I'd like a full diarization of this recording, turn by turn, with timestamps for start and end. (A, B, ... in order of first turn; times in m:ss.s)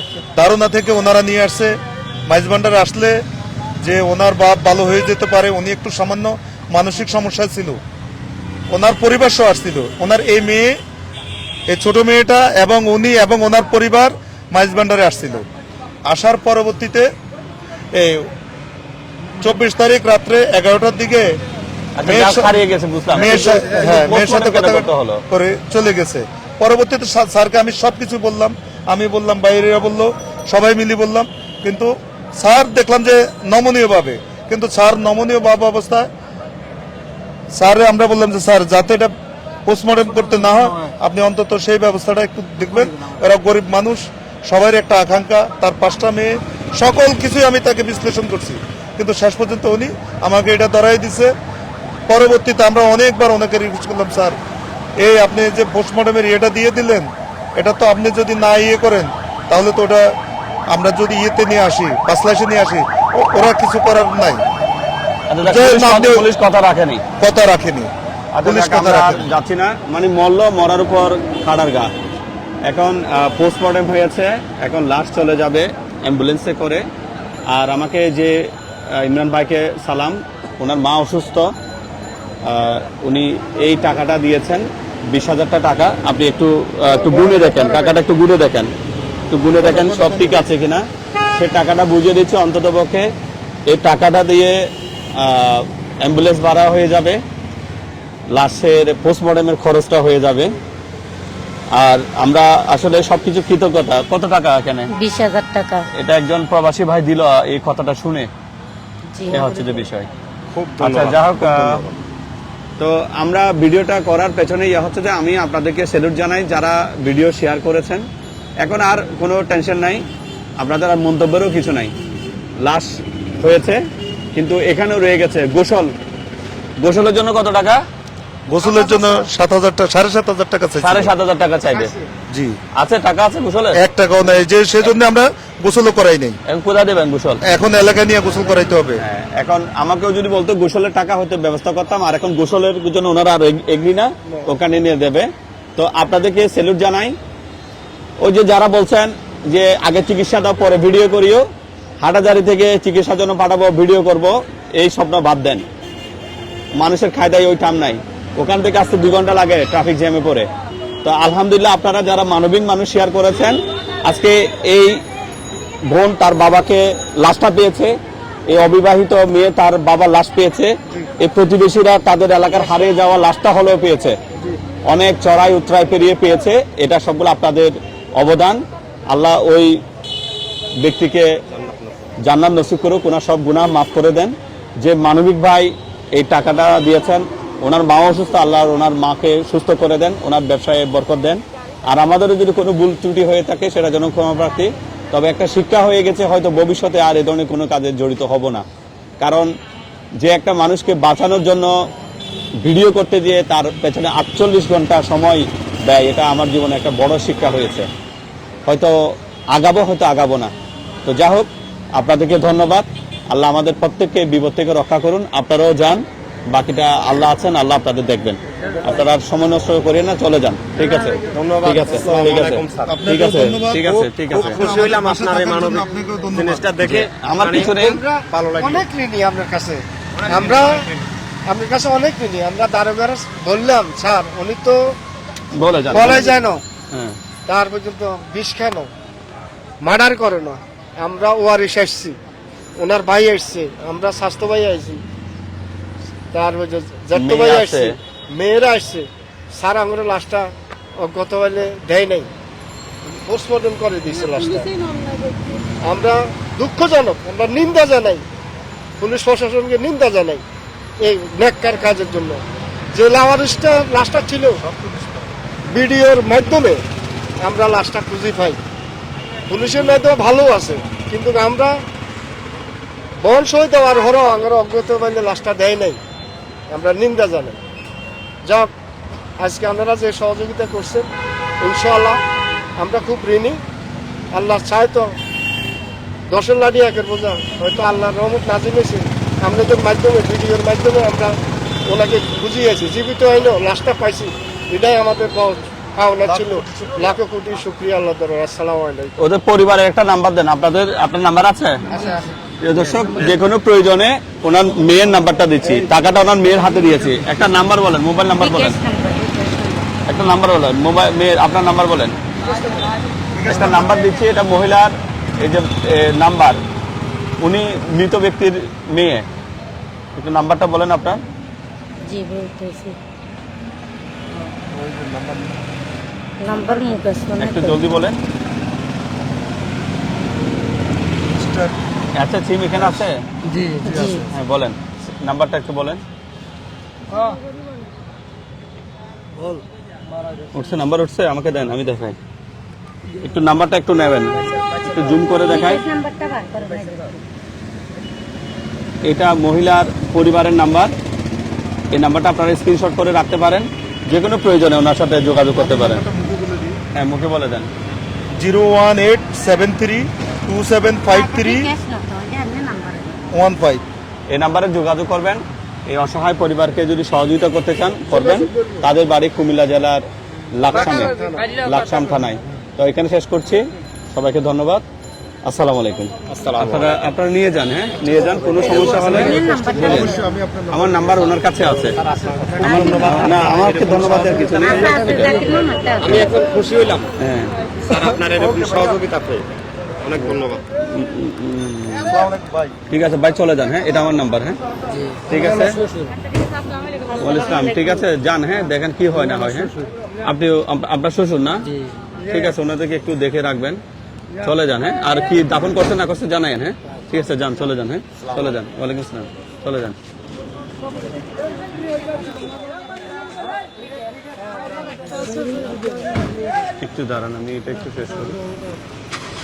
0:00.4-0:03.2 A
0:03.8-0:07.8 A
0:08.7-0:10.8 A
0:11.7-0:15.5 A
0:16.1-0:17.1 A
0:17.9-0:18.3 A
0:19.4-0:21.3 A
0:22.0-0:25.2 B
0:22.0-0:22.6 A
0:23.1-0:36.1 A
0:37.6-0:39.2 A
0:39.7-0:51.3 A
0:52.1-0:54.4 A
0:55.0-1:00.1 A
1:00.7-1:04.4 A
1:05.3-1:07.0 B
1:05.4-1:06.3 A
1:07.2-1:07.9 A
1:08.3-1:11.9 B
1:08.4-1:09.2 A
1:12.7-1:16.8 B
1:17.5-1:21.5 B
1:22.4-1:28.7 B
1:27.0-1:28.0 C
1:29.3-1:33.1 B
1:33.7-1:37.2 B
1:38.3-1:40.6 B
1:41.7-1:44.9 B
1:45.0-1:45.9 D
1:46.0-1:48.3 B
1:49.1-1:49.4 D
1:49.3-1:50.1 B
1:50.6-1:51.6 E
1:50.8-1:51.9 B
1:52.8-1:58.1 B
1:58.6-2:00.0 B
2:00.6-2:01.9 B
2:02.6-2:03.8 B
2:04.4-2:05.9 B
2:06.8-2:07.8 B
2:08.5-2:11.1 A
2:08.9-2:09.2 C
2:10.8-2:11.9 B
2:11.7-2:12.1 C
2:12.3-2:12.6 A
2:12.8-2:13.8 B
2:13.7-2:16.4 A
2:16.5-2:17.4 B
2:17.4-2:19.0 A
2:19.0-2:27.2 B
2:28.2-2:31.4 B
2:32.0-2:35.6 B
2:36.8-2:40.5 B
2:41.0-2:45.0 B
2:45.8-2:48.0 B
2:48.5-2:54.2 B
2:54.9-2:59.8 B
3:00.8-3:01.3 B
3:02.2-3:18.6 B
3:19.2-3:19.5 B
3:20.2-3:21.7 B
3:22.6-3:27.9 B
3:28.7-3:30.5 B
3:31.0-3:44.6 B
3:41.3-3:42.9 E
3:42.8-3:46.7 A
3:43.9-3:48.9 E
3:46.8-3:48.0 B
3:47.7-3:50.9 C
3:50.3-3:50.9 E
3:51.5-3:55.0 C
3:55.5-3:56.3 B
3:55.9-3:56.6 C
3:56.9-3:57.2 B
3:57.5-3:58.9 C
3:59.8-4:02.2 C
4:02.8-4:05.0 C
4:06.3-4:12.3 C
4:07.1-4:08.0 B
4:13.0-4:14.7 C
4:15.8-4:18.2 C
4:19.0-4:20.4 C
4:21.0-4:24.6 C
4:24.6-4:25.3 A
4:25.7-4:26.8 C
4:27.4-4:28.6 C
4:29.5-4:31.8 C
4:33.2-4:36.0 C
4:36.7-4:37.6 C
4:38.4-4:38.7 C
4:39.4-4:41.1 C
4:41.6-4:42.2 C
4:42.8-4:43.6 C
4:44.3-4:45.2 C
4:46.3-4:51.3 C
4:51.9-4:59.2 C
4:56.3-4:57.1 A
4:59.2-5:01.8 B
5:02.6-5:08.8 B
5:08.4-5:09.9 D
5:10.1-5:12.2 B
5:13.3-5:13.9 A
5:13.4-5:16.6 B
5:17.4-5:19.3 B
5:20.2-5:21.2 B
5:22.1-5:23.0 D
5:24.7-5:25.5 A
5:26.4-5:27.8 D
5:27.4-5:28.2 B
5:31.3-5:31.7 A
5:32.2-5:33.2 B
5:33.8-5:34.3 A
5:33.8-5:34.2 D
5:34.3-5:36.0 B
5:40.5-5:42.2 B
5:43.2-5:45.8 B
5:45.5-5:47.2 D
5:49.0-5:51.0 B
5:51.9-5:56.0 B
5:55.6-5:56.8 A
5:56.9-5:57.7 B
5:58.4-6:01.7 A
6:01.1-6:03.2 D
6:03.3-6:03.8 A
6:04.3-6:14.8 B
6:10.7-6:11.4 C
6:15.4-6:22.0 B
6:16.3-6:16.9 E
6:18.6-6:19.0 E
6:18.6-6:20.4 D
6:22.1-6:24.7 E
6:22.6-6:25.4 B
6:22.6-6:23.3 D
6:24.5-6:26.3 D
6:26.1-6:27.1 E
6:27.2-6:27.5 B
6:27.9-6:29.5 E
6:28.4-6:29.0 A
6:30.0-6:30.6 E
6:30.8-6:32.2 B
6:32.1-6:32.7 A
6:32.9-6:34.6 B
6:35.3-6:35.8 B
6:37.2-6:41.8 B
6:42.3-6:43.8 B
6:44.4-6:50.0 B
6:56.8-6:58.4 B